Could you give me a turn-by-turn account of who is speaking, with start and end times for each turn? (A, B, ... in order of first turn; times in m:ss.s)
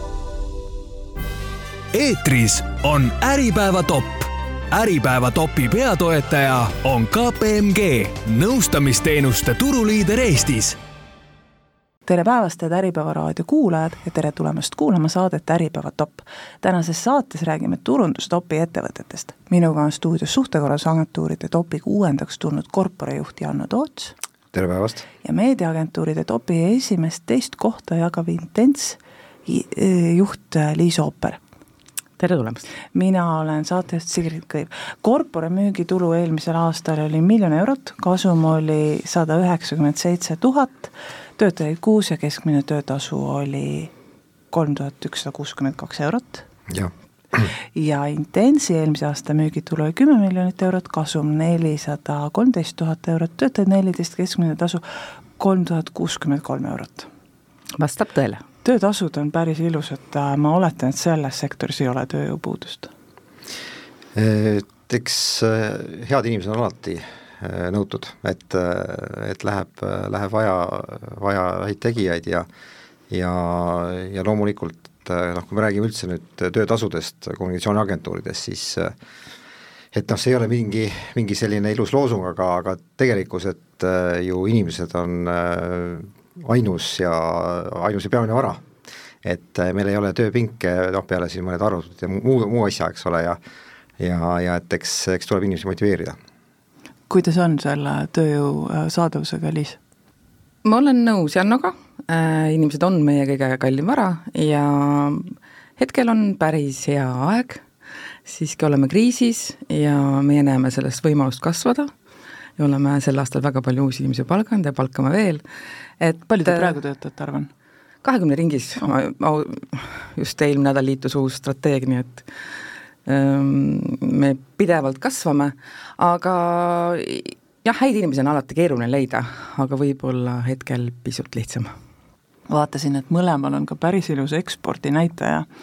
0:01.9-0:10.8 A
0:12.1-0:24.2 B
0:24.5-0:25.1 C
0:25.2-0:31.4 B
0:32.2-0:32.7 D
0:32.9-0:43.9 B
0:44.5-0:46.4 B
0:46.7-0:47.5 C
0:47.7-0:54.8 B
0:55.4-0:57.1 B
0:57.8-0:58.4 D
0:58.6-1:02.9 B
1:04.2-1:12.5 C
1:13.1-1:18.9 C
1:19.9-1:28.6 C
1:29.2-1:33.4 C
1:34.0-1:36.2 C
1:37.1-1:39.8 B
1:40.6-1:47.6 D
1:48.3-1:51.9 D
1:52.6-1:55.4 D
1:56.0-1:56.7 D
1:56.3-1:57.5 B
1:58.0-2:02.3 D
2:03.1-2:11.7 D
2:12.5-2:15.5 B